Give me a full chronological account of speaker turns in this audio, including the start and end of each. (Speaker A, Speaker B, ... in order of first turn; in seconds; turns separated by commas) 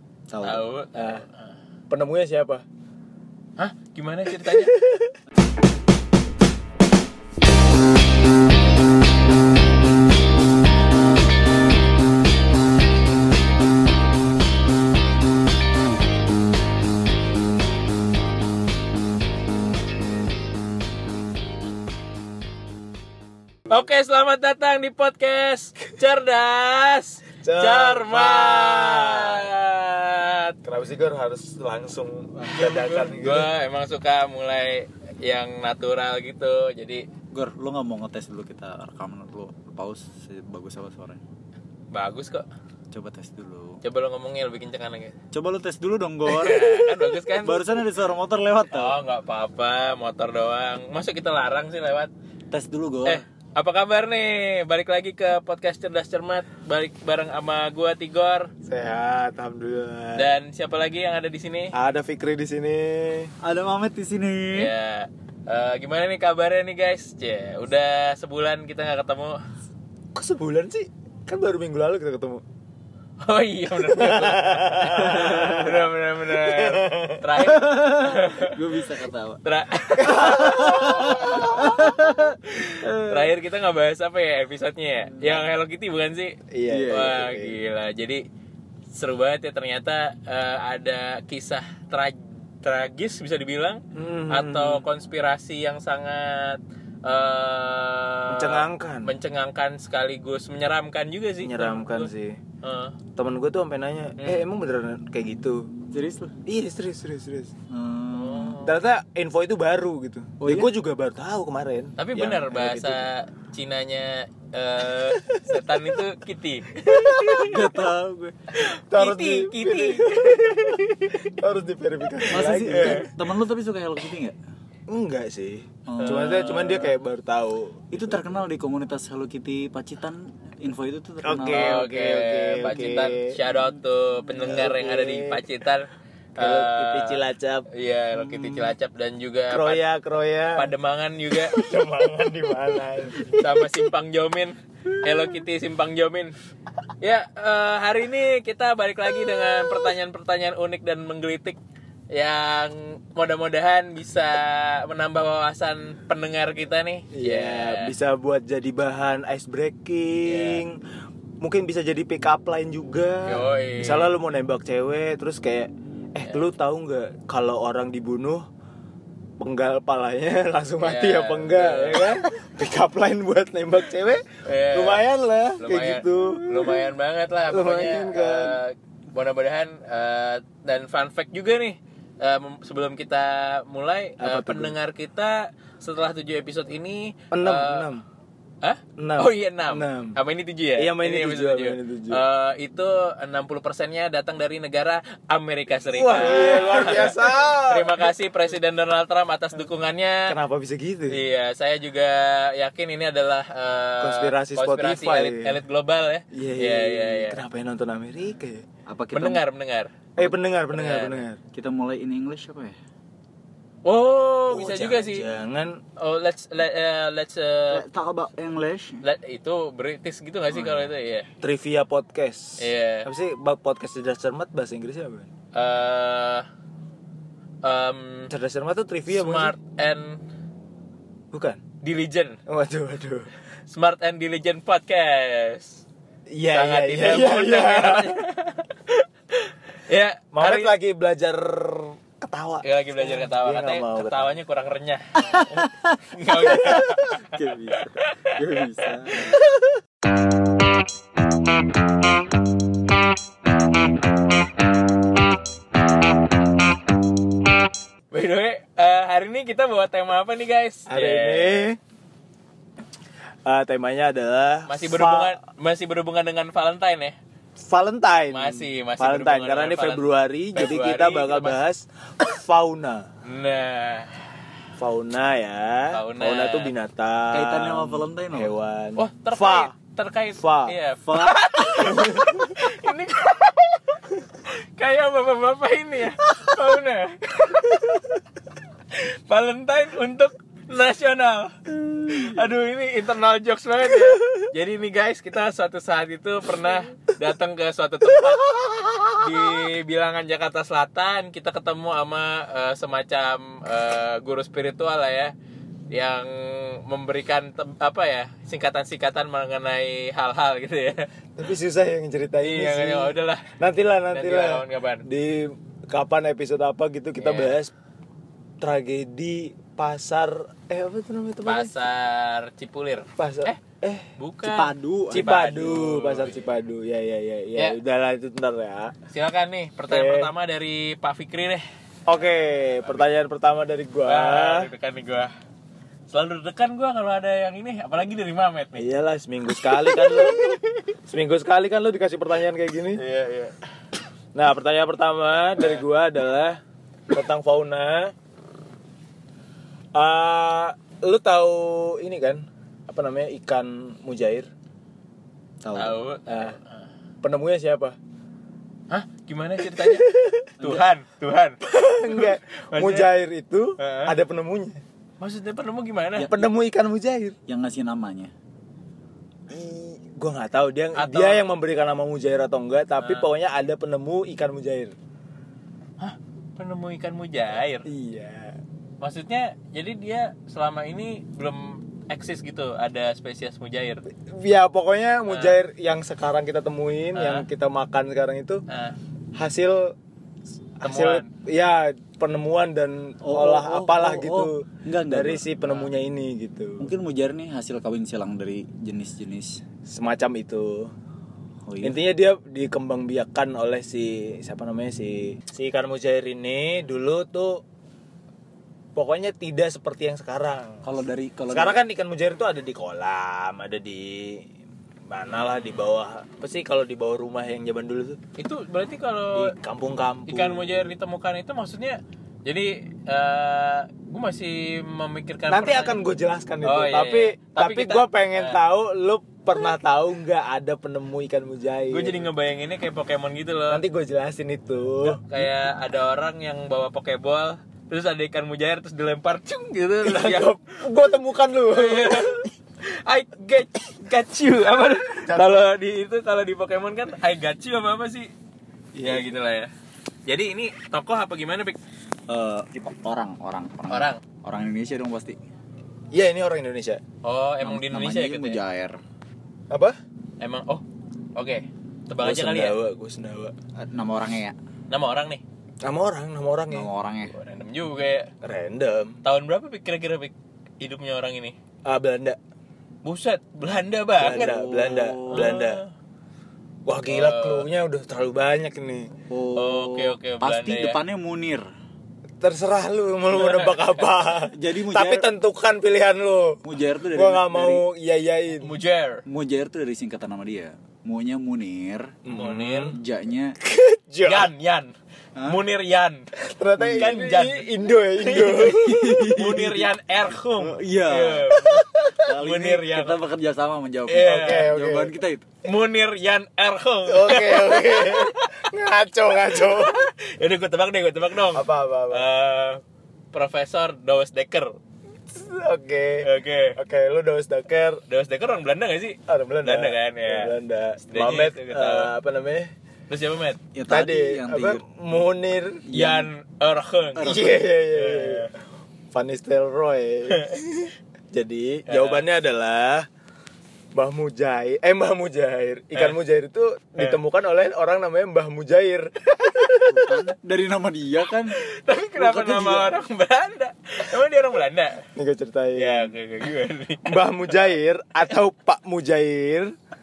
Speaker A: 0.3-0.7, Speaker B: 0.4-1.5, Speaker C: 0.9-1.2, Speaker C: 1.9-2.6, Speaker B: 3.6-4.7, Speaker C: 4.5-5.1, Speaker B: 23.7-30.6, Speaker C: 27.4-29.5, Speaker C: 30.6-33.5, Speaker B: 32.6-37.0, Speaker A: 37.3-41.2, Speaker B: 41.9-42.5, Speaker A: 42.9-43.8, Speaker B: 43.8-45.1, Speaker A: 45.3-49.0, Speaker B: 46.3-47.7, Speaker B: 48.7-52.1, Speaker A: 52.5-53.2, Speaker B: 53.0-58.5, Speaker C: 58.6-60.3, Speaker B: 60.1-61.7, Speaker C: 61.7-63.3, Speaker A: 63.4-64.7, Speaker B: 64.5-69.4, Speaker C: 70.1-72.4, Speaker B: 73.2-78.7, Speaker C: 73.8-77.2, Speaker A: 77.3-79.4, Speaker B: 79.4-81.4, Speaker C: 80.0-81.9, Speaker A: 80.0-83.3, Speaker B: 82.6-88.2, Speaker A: 85.2-85.4, Speaker C: 86.5-87.5, Speaker A: 86.7-87.3, Speaker B: 88.9-102.1, Speaker C: 93.9-94.8, Speaker C: 98.3-99.1, Speaker C: 101.4-102.4, Speaker B: 102.6-103.0, Speaker C: 103.1-105.7, Speaker A: 105.9-106.3, Speaker C: 106.5-107.5, Speaker A: 107.7-108.6, Speaker B: 108.1-108.8, Speaker C: 108.6-113.1, Speaker A: 110.4-110.7, Speaker B: 112.0-117.6, Speaker C: 115.2-115.5, Speaker C: 116.8-117.5, Speaker A: 117.4-118.3, Speaker C: 118.6-123.1, Speaker B: 118.7-121.2, Speaker A: 122.3-124.4, Speaker B: 122.3-123.1, Speaker C: 124.9-127.9, Speaker A: 125.8-126.7, Speaker B: 126.0-126.9, Speaker A: 127.9-131.8, Speaker C: 131.2-133.3, Speaker B: 131.4-137.2, Speaker A: 134.2-134.7, Speaker C: 134.4-135.4, Speaker C: 136.4-137.7, Speaker B: 137.7-139.8, Speaker A: 138.2-138.7, Speaker C: 139.5-140.7, Speaker B: 140.6-141.7, Speaker C: 141.3-143.7, Speaker B: 143.2-146.3, Speaker B: 147.0-151.6, Speaker B: 152.1-157.9, Speaker C: 157.1-160.8, Speaker B: 160.2-160.6, Speaker C: 161.4-168.4, Speaker B: 163.3-164.1, Speaker C: 169.4-176.8, Speaker B: 170.8-172.1, Speaker B: 174.4-175.0, Speaker B: 175.6-187.9, Speaker C: 177.5-178.6, Speaker C: 184.2-184.7, Speaker C: 187.3-188.0, Speaker B: 188.6-200.3, Speaker C: 189.0-190.2, Speaker C: 190.8-192.2, Speaker C: 195.9-198.1, Speaker C: 200.3-201.2, Speaker B: 201.1-207.4, Speaker C: 204.0-205.5, Speaker C: 206.3-208.6, Speaker A: 208.9-209.4, Speaker B: 209.1-209.9, Speaker C: 210.2-211.4, Speaker B: 210.7-211.2, Speaker A: 211.5-212.8, Speaker B: 213.8-215.2, Speaker C: 214.5-215.8, Speaker B: 216.0-217.8, Speaker A: 217.7-219.0, Speaker B: 219.0-221.3, Speaker A: 220.5-220.9, Speaker C: 221.4-225.3, Speaker B: 222.6-223.1, Speaker B: 225.5-226.5, Speaker B: 227.6-228.3, Speaker C: 228.3-229.6, Speaker B: 229.1-230.2, Speaker C: 231.3-231.6, Speaker B: 231.8-232.4, Speaker C: 232.5-233.3, Speaker B: 233.7-235.8, Speaker C: 236.3-238.2, Speaker B: 236.5-240.7, Speaker C: 240.3-244.3, Speaker B: 242.6-245.5, Speaker A: 245.4-249.4, Speaker B: 246.1-249.3, Speaker C: 246.4-247.0, Speaker B: 258.1-261.7, Speaker C: 260.9-261.8, Speaker C: 263.4-265.4, Speaker B: 264.7-267.1, Speaker C: 267.6-273.1, Speaker B: 268.3-271.6, Speaker B: 273.2-274.1, Speaker C: 274.8-279.7, Speaker B: 275.9-276.7, Speaker A: 277.3-278.5, Speaker B: 279.0-288.2, Speaker C: 280.4-280.7, Speaker A: 281.0-282.0, Speaker C: 281.8-282.4, Speaker B: 288.9-305.3, Speaker C: 298.8-299.1, Speaker B: 305.9-311.1, Speaker C: 311.4-317.7, Speaker B: 312.4-313.5, Speaker B: 314.1-315.0, Speaker B: 317.2-317.5, Speaker C: 318.6-321.7, Speaker B: 321.4-323.6, Speaker C: 323.1-324.1, Speaker B: 324.2-326.5, Speaker A: 324.4-325.9, Speaker C: 325.1-328.9, Speaker B: 329.1-331.6, Speaker C: 329.9-330.3, Speaker C: 332.1-334.7, Speaker B: 334.1-335.3, Speaker B: 336.1-338.8, Speaker C: 338.8-343.0, Speaker B: 339.8-340.6, Speaker B: 343.0-343.5, Speaker C: 344.3-348.1, Speaker C: 349.9-354.5, Speaker A: 355.6-356.0, Speaker B: 355.7-356.8, Speaker C: 356.3-356.6, Speaker C: 357.2-358.0, Speaker B: 358.9-363.1, Speaker C: 359.7-360.5, Speaker A: 360.6-360.8, Speaker C: 361.6-364.8, Speaker B: 363.8-364.1, Speaker B: 365.2-366.3, Speaker A: 366.1-366.4, Speaker C: 366.2-367.4, Speaker A: 367.5-368.3, Speaker C: 369.5-374.9, Speaker B: 370.9-371.4, Speaker B: 373.0-373.3, Speaker B: 376.0-377.9, Speaker C: 377.9-378.6, Speaker B: 379.0-384.0, Speaker C: 384.1-388.6, Speaker B: 385.3-385.6, Speaker B: 387.1-387.4, Speaker B: 388.7-389.0, Speaker C: 389.3-389.9, Speaker C: 390.8-396.9, Speaker B: 390.8-391.3, Speaker A: 393.2-395.4, Speaker A: 396.8-399.6, Speaker C: 399.9-400.9, Speaker A: 401.6-402.0, Speaker C: 401.8-407.6, Speaker C: 408.9-410.9, Speaker A: 410.8-411.8, Speaker C: 411.5-414.5, Speaker C: 415.1-418.2, Speaker B: 418.4-419.5, Speaker C: 419.3-420.9, Speaker B: 420.3-426.0, Speaker C: 425.5-432.2, Speaker B: 426.6-428.6, Speaker B: 431.9-433.8, Speaker C: 433.7-435.4, Speaker B: 435.0-440.5, Speaker C: 440.0-442.4, Speaker B: 441.7-448.3, Speaker C: 445.2-445.6, Speaker C: 448.9-449.3, Speaker B: 449.0-449.7, Speaker B: 450.2-451.8, Speaker A: 452.3-455.4, Speaker B: 453.9-454.2, Speaker C: 456.1-457.0, Speaker B: 457.2-458.6, Speaker A: 457.6-459.0, Speaker C: 459.7-459.9, Speaker B: 460.4-460.8, Speaker B: 461.3-462.8, Speaker C: 462.2-463.5, Speaker A: 463.8-464.6, Speaker B: 464.9-465.4, Speaker C: 465.8-466.9, Speaker A: 466.7-467.3, Speaker B: 467.3-468.3, Speaker C: 468.4-469.2, Speaker B: 469.2-471.6, Speaker C: 471.8-472.4, Speaker B: 473.0-474.5, Speaker A: 474.2-475.6, Speaker C: 474.2-475.8, Speaker B: 475.3-475.9, Speaker C: 476.9-479.1, Speaker B: 477.1-477.7, Speaker A: 479.3-481.6, Speaker B: 479.5-481.0, Speaker C: 482.4-486.6, Speaker B: 483.3-484.0, Speaker A: 484.5-485.3, Speaker A: 486.6-487.8, Speaker C: 487.1-488.7, Speaker B: 488.6-489.2, Speaker A: 489.2-492.2, Speaker C: 492.2-492.9, Speaker B: 492.3-493.0, Speaker A: 492.9-493.6, Speaker C: 493.6-494.5, Speaker B: 494.2-494.9, Speaker A: 495.4-495.6, Speaker B: 495.4-496.3, Speaker C: 496.3-499.1, Speaker A: 496.8-497.3, Speaker B: 497.0-497.7, Speaker B: 498.3-503.2, Speaker A: 498.3-499.9, Speaker A: 500.6-501.6, Speaker C: 501.5-502.3, Speaker A: 502.2-505.4, Speaker B: 504.1-504.7, Speaker C: 504.2-505.1, Speaker B: 505.6-508.5, Speaker C: 507.1-510.1, Speaker B: 509.5-512.8, Speaker C: 511.5-512.2, Speaker B: 513.3-514.8, Speaker C: 515.3-518.0, Speaker B: 516.2-516.8, Speaker B: 518.1-520.5, Speaker C: 519.3-522.7, Speaker B: 521.1-522.1, Speaker B: 523.1-523.6, Speaker A: 523.7-524.8, Speaker C: 523.9-525.9, Speaker A: 525.9-526.3, Speaker B: 525.9-527.3, Speaker A: 527.1-527.6, Speaker C: 527.2-528.5, Speaker B: 527.9-528.5, Speaker C: 529.1-533.1, Speaker B: 531.9-532.2, Speaker C: 533.9-540.2, Speaker A: 539.9-541.6, Speaker B: 541.5-545.0, Speaker A: 542.1-543.0, Speaker C: 545.1-546.1, Speaker B: 545.8-547.2, Speaker C: 547.0-549.7